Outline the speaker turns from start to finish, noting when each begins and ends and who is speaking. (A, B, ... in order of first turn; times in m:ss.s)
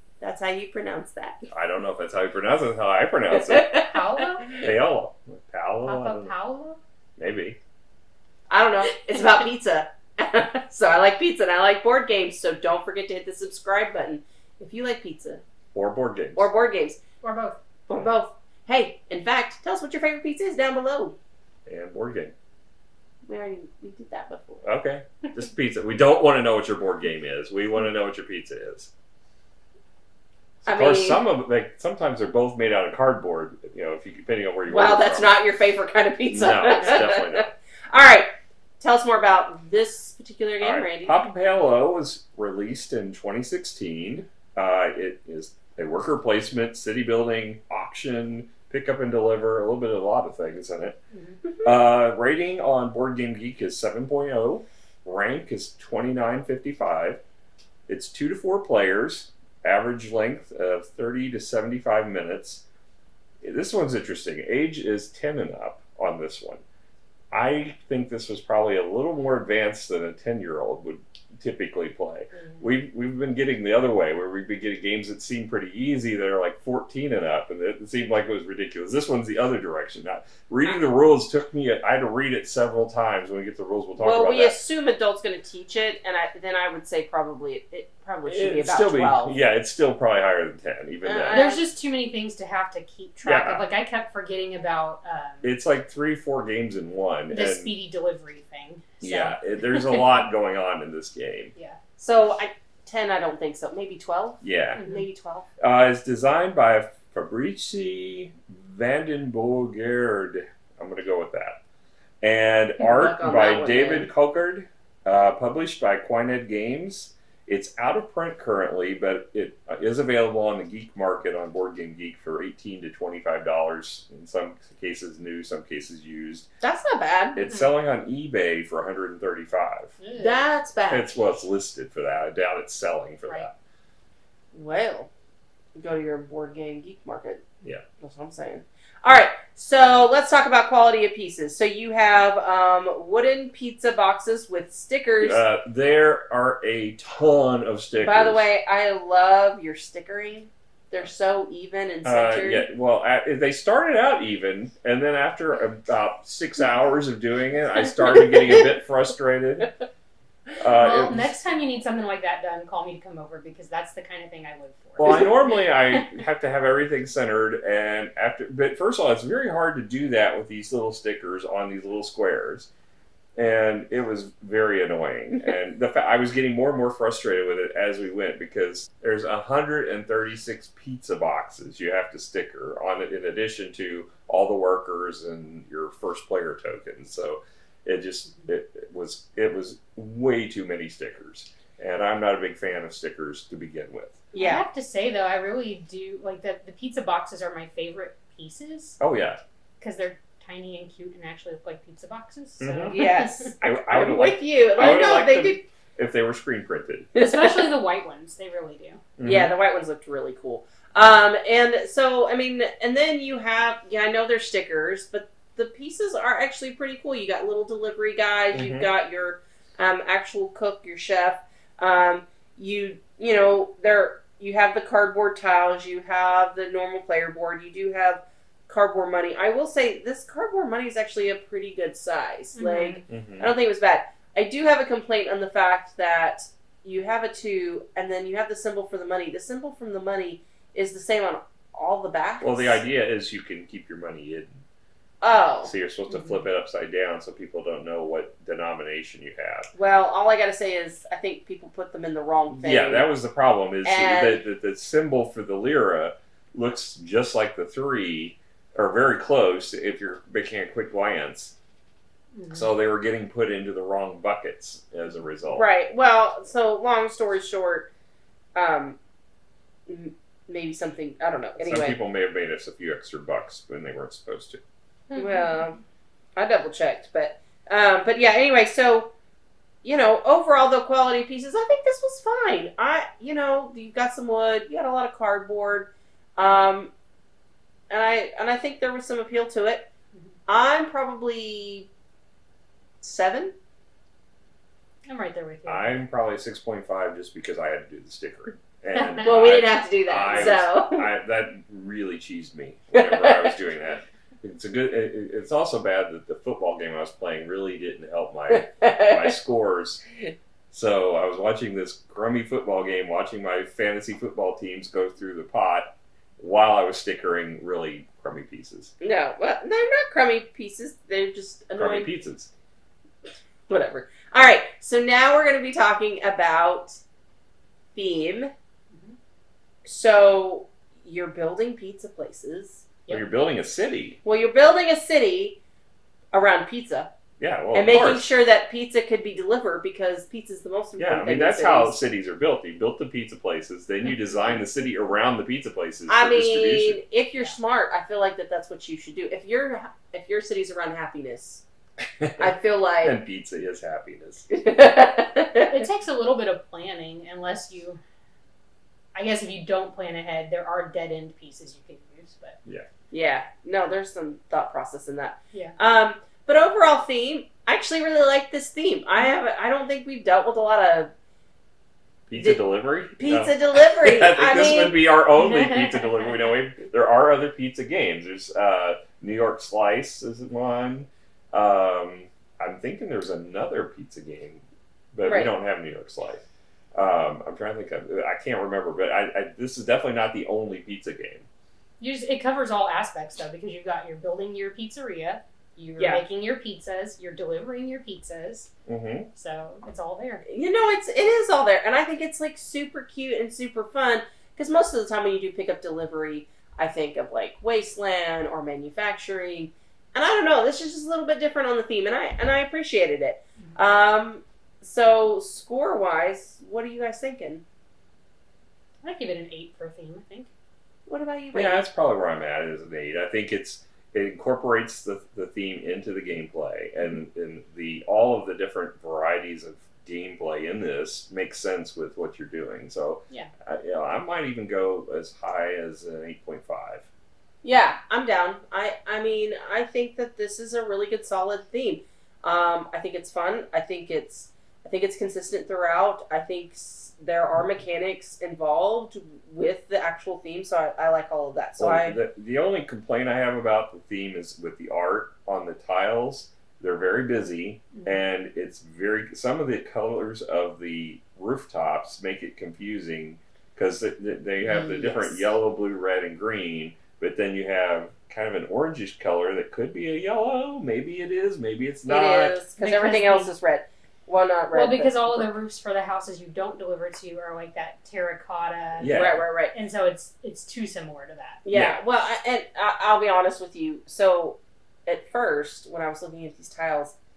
0:00.2-0:01.4 A
0:01.5-0:03.8 B
0:03.3-0:04.6 A
0:03.9-0:04.5 C
0:04.6-0:06.3 B
0:05.8-0:06.8 C
0:07.2-0:07.6 B
0:08.5-0:15.4 A
0:15.7-0:16.5 B
0:16.4-0:17.0 A
0:17.2-0:17.6 C
0:17.9-0:21.2 A
0:21.6-0:22.3 B
0:23.3-0:24.6 A
0:24.6-0:28.9 B
0:30.6-0:35.3 B
0:30.6-0:31.2 A
0:34.7-0:41.2 A
0:36.3-0:37.5 B
0:36.7-0:37.0 C
0:40.6-0:51.0 B
0:51.1-0:51.4 C
0:51.6-0:57.2 B
0:57.9-1:02.6 B
1:03.4-1:06.6 B
1:07.3-1:24.6 B
1:24.0-1:29.4 A
1:28.3-1:31.5 B
1:31.0-1:31.6 A
1:31.3-1:35.5 C
1:33.2-1:33.6 B
1:35.4-1:37.7 B
1:37.3-1:39.9 C
1:39.0-1:41.5 B
1:42.0-1:45.5 A
1:44.4-1:44.8 B
1:44.8-1:45.0 C
1:45.6-1:51.6 B
1:52.2-2:06.5 B
1:52.8-1:54.1 A
2:06.6-2:07.4 A
2:07.3-2:10.0 B
2:10.0-2:10.4 C
2:10.1-2:11.2 A
2:10.9-2:13.5 B
2:14.5-2:15.1 A
2:15.8-2:17.4 A
2:18.0-2:25.4 A
2:25.2-2:28.4 B
2:28.0-2:32.7 A
2:32.0-2:39.7 B
2:40.6-2:41.4 B
2:40.7-2:45.3 C
2:45.0-2:52.7 B
2:45.9-2:46.2 C
2:53.4-3:14.2 B
3:14.3-3:14.6 A
3:14.3-3:19.0 C
3:19.0-3:19.4 B
3:19.8-3:23.6 C
3:22.6-3:23.1 B
3:22.9-3:25.6 A
3:23.6-3:27.1 B
3:27.1-3:27.6 A
3:27.2-3:29.0 C
3:29.2-3:29.5 B
3:29.2-4:02.8 A
3:38.5-3:38.9 B
3:52.5-3:53.0 C
3:53.1-3:53.5 B
4:02.4-4:04.6 B
4:05.2-4:06.4 A
4:05.6-4:09.7 B
4:09.7-4:13.1 A
4:12.6-4:21.6 B
4:13.8-4:14.4 A
4:22.4-4:22.7 C
4:22.5-4:25.6 B
4:25.5-4:27.9 A
4:28.5-4:29.0 A
4:29.9-4:32.0 A
4:31.6-4:34.6 B
4:35.1-4:35.6 C
4:35.1-4:35.8 A
4:36.4-4:39.1 A
4:39.8-4:46.9 A
4:47.9-4:49.9 A
4:50.5-4:51.9 A
4:53.0-4:53.5 A
4:55.0-4:55.9 C
4:55.6-5:10.0 B
4:58.9-4:59.3 C
4:59.2-5:01.1 A
5:02.9-5:03.5 A
5:08.5-5:09.3 A
5:10.7-5:18.9 B
5:19.0-5:22.1 A
5:21.8-5:22.5 B
5:23.7-5:27.0 A
5:27.9-5:28.5 A
5:29.8-5:32.8 A
5:33.1-5:34.2 B
5:34.2-5:35.6 A
5:36.3-5:37.1 A
5:37.4-5:38.3 B
5:37.7-5:42.0 A
5:41.0-5:47.0 B
5:46.1-5:51.6 A
5:52.2-5:54.5 B
5:52.4-5:53.2 A
5:54.5-5:55.8 A
5:55.7-5:58.0 C
5:59.1-6:02.6 C
6:03.1-6:11.1 A
6:12.3-6:31.5 B
6:12.4-6:12.6 A
6:13.2-6:15.0 A
6:15.4-6:16.3 C
6:25.2-6:25.5 A
6:32.0-6:38.7 C
6:38.9-6:39.3 B
6:39.3-6:40.4 C
6:40.4-6:57.6 A
6:59.0-7:00.5 C
7:01.1-7:01.9 A
7:01.5-7:17.1 B
7:17.6-7:32.2 A
7:31.8-7:52.6 B
7:44.6-7:45.5 A
7:52.0-7:55.5 A
7:52.8-7:53.5 C
7:54.7-8:01.6 C
7:59.0-7:59.4 B
7:59.1-7:59.7 A
8:01.6-8:07.1 A
8:01.7-8:02.0 B